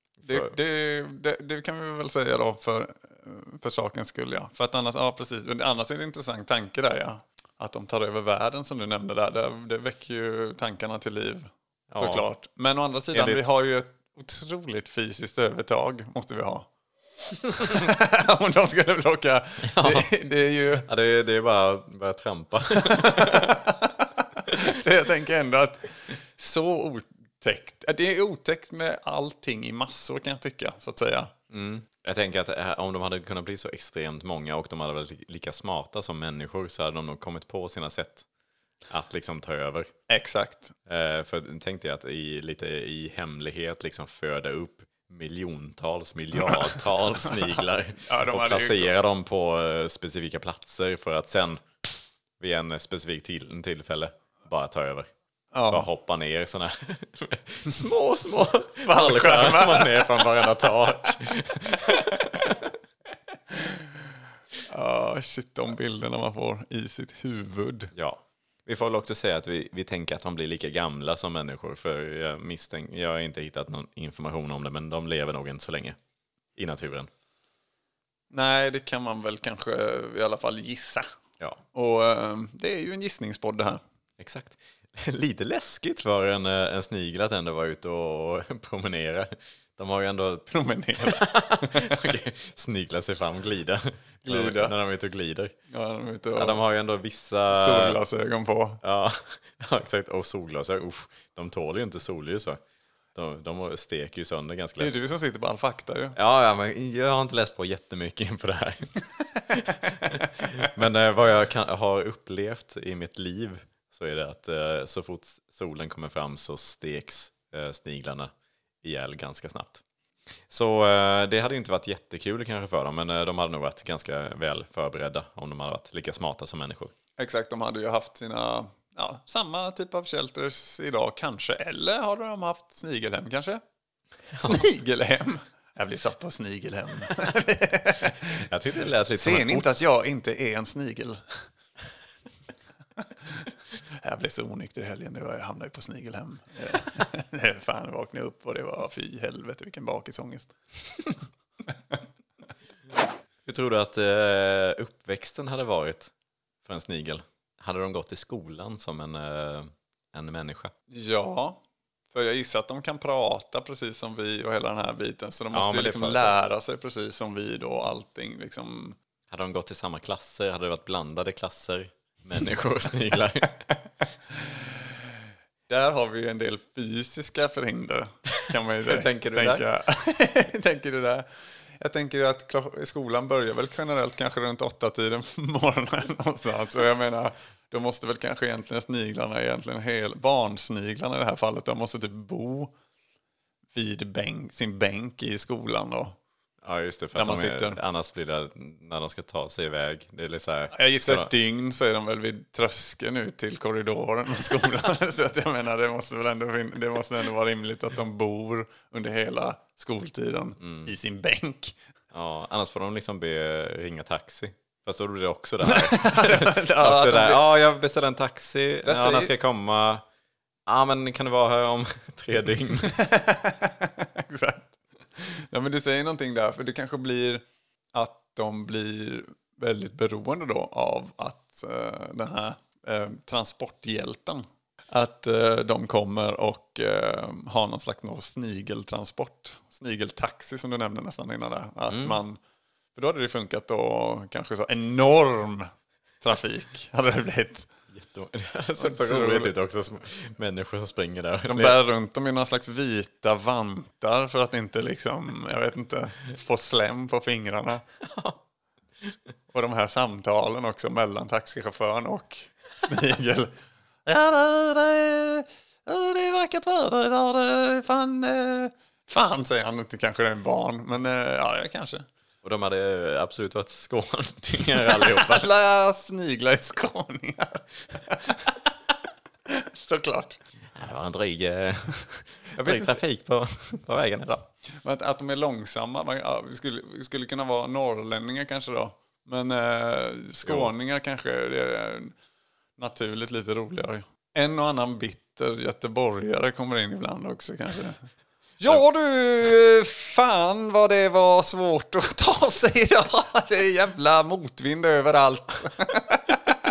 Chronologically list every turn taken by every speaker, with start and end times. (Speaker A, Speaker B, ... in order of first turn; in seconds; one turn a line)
Speaker A: 0.2-0.5
Speaker B: 0.2-16.7
Speaker A: 11.9-12.3
Speaker A: 13.1-13.6
Speaker B: 17.2-20.9
Speaker A: 19.6-20.1
Speaker A: 20.7-23.6
Speaker B: 22.7-31.3
Speaker A: 31.5-38.3
Speaker A: 38.9-39.9
Speaker B: 40.1-40.7
Speaker A: 40.9-51.6
Speaker B: 46.4-48.9
Speaker A: 52.4-55.1
Speaker B: 55.5-55.9
Speaker A: 55.7-62.7
Speaker B: 58.8-60.3
Speaker B: 61.9-62.2
Speaker B: 63.5-64.1
Speaker B: 64.7-67.9
Speaker A: 67.9-76.0
Speaker A: 76.5-77.1
Speaker B: 78.3-81.0
Speaker B: 81.7-83.8
Speaker A: 84.2-90.5
Speaker B: 90.5-92.0
Speaker A: 91.0-95.5
Speaker B: 94.2-94.7
Speaker B: 95.7-96.6
Speaker A: 96.3-98.0
Speaker B: 97.5-98.8
Speaker A: 98.8-102.6
Speaker A: 103.1-104.9
Speaker B: 104.8-106.2
Speaker A: 106.1-109.0
Speaker A: 109.5-119.8
Speaker A: 120.5-126.9
Speaker B: 127.2-133.6
Speaker A: 134.3-134.7
Speaker B: 134.4-138.5
Speaker A: 138.3-139.8
Speaker B: 139.1-141.5
Speaker B: 143.0-151.2
Speaker A: 153.4-160.7
Speaker B: 160.9-161.6
Speaker B: 162.1-169.0
Speaker A: 165.5-166.4
Speaker A: 169.3-173.6
Speaker B: 174.3-192.7
Speaker A: 178.8-179.6
Speaker B: 193.7-196.2
Speaker A: 196.6-201.3
Speaker B: 197.1-197.8
Speaker B: 200.7-211.8
Speaker A: 210.6-210.9
Speaker A: 212.1-220.0
Speaker B: 215.7-217.4
Speaker B: 218.8-219.3
Speaker A: 220.7-223.0
Speaker B: 222.8-242.4
Speaker A: 241.9-242.2
Speaker B: 242.9-247.7
Speaker A: 247.9-251.8
Speaker B: 248.8-249.5
Speaker B: 251.5-257.8
Speaker A: 258.0-258.4
Speaker B: 259.5-263.5
Speaker B: 264.1-272.1
Speaker A: 272.4-275.5
Speaker B: 274.7-278.7
Speaker B: 279.4-280.4
Speaker A: 280.7-284.4
Speaker B: 282.6-283.0
Speaker B: 284.7-292.1
Speaker A: 290.4-290.7
Speaker B: 292.8-306.5